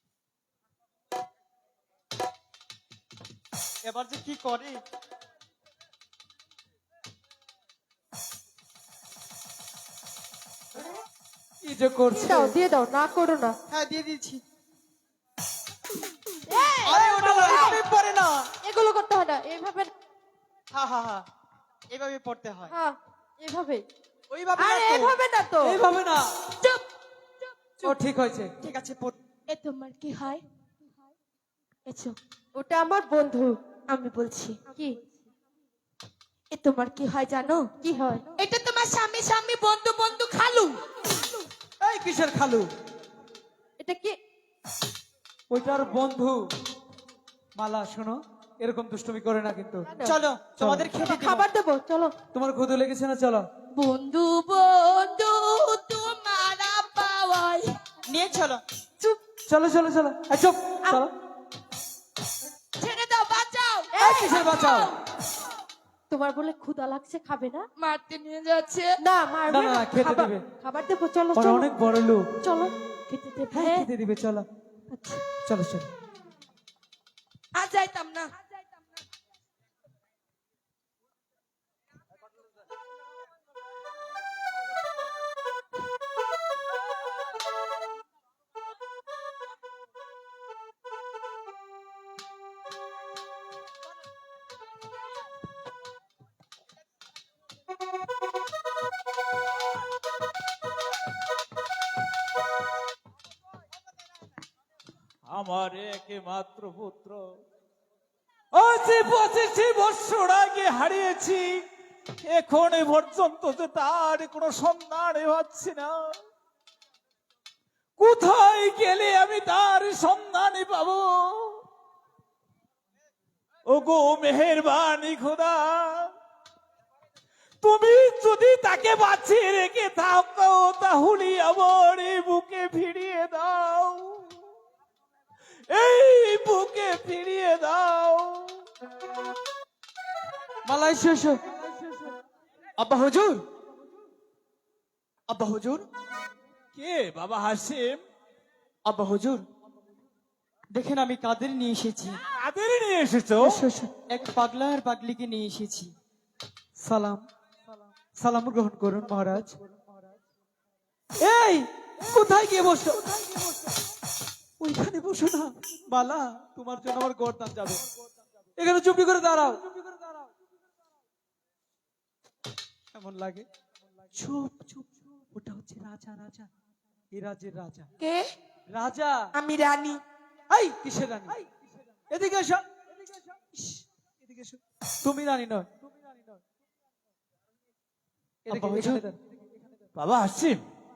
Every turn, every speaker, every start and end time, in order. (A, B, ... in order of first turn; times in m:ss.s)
0:03.8-0:04.8 A
0:11.6-0:12.6 B
0:12.1-0:13.6 C
0:13.7-0:14.4 A
0:16.5-0:17.8 C
0:16.8-0:18.5 A
0:18.6-0:19.9 C
0:20.7-0:21.2 A
0:21.9-0:22.7 A
0:22.7-0:23.8 C
0:24.3-0:25.2 A
0:24.6-0:25.8 C
0:25.6-0:26.3 B
0:27.8-0:28.5 B
0:28.6-0:29.2 A
0:29.5-0:30.4 D
0:31.9-0:32.2 D
0:32.6-0:33.6 C
0:33.9-0:34.6 D
0:34.7-0:35.0 C
0:36.5-0:37.7 D
0:37.8-0:38.3 C
0:38.4-0:40.8 D
0:41.8-0:42.7 B
0:43.8-0:44.2 C
0:45.5-0:46.4 B
0:47.6-0:49.9 B
0:49.9-0:50.2 C
0:50.0-0:51.4 A
0:50.6-0:50.9 B
0:51.0-0:52.1 C
0:52.3-0:53.5 B
0:53.7-0:57.7 D
0:58.1-0:58.6 A
0:59.5-1:01.1 B
1:02.8-1:04.9 D
1:04.0-1:04.4 C
1:04.0-1:04.9 B
1:06.1-1:07.7 C
1:07.8-1:09.0 D
1:09.0-1:11.7 C
1:09.5-1:10.4 B
1:11.4-1:12.3 B
1:12.4-1:12.7 C
1:13.1-1:13.8 D
1:13.5-1:14.5 B
1:14.9-1:15.3 C
1:15.4-1:15.9 B
1:17.6-1:18.3 D
1:45.3-1:47.2 E
1:48.5-1:51.6 E
1:52.3-1:56.1 E
1:58.0-2:01.6 E
2:03.7-2:06.1 E
2:07.6-2:14.4 E
2:15.7-2:18.6 E
2:20.7-2:21.4 B
2:22.8-2:23.4 A
2:25.3-2:25.9 A
2:26.8-2:28.0 E
2:28.9-2:29.4 A
2:30.7-2:32.2 A
2:32.3-2:33.6 E
2:33.4-2:33.9 B
2:34.1-2:35.9 A
2:36.8-2:37.2 B
2:38.2-2:39.6 B
2:41.2-2:43.4 B
2:44.6-2:47.8 B
2:48.6-2:49.7 B
2:53.0-2:53.5 B
2:54.2-2:56.5 B
2:57.1-2:57.9 B
2:58.0-2:58.3 D
2:58.7-2:59.2 B
2:59.4-3:00.0 D
3:00.5-3:01.4 B
3:02.1-3:02.6 B
3:04.3-3:05.7 B
3:08.5-3:09.0 A
3:08.5-3:09.2 B
3:10.0-3:10.6 E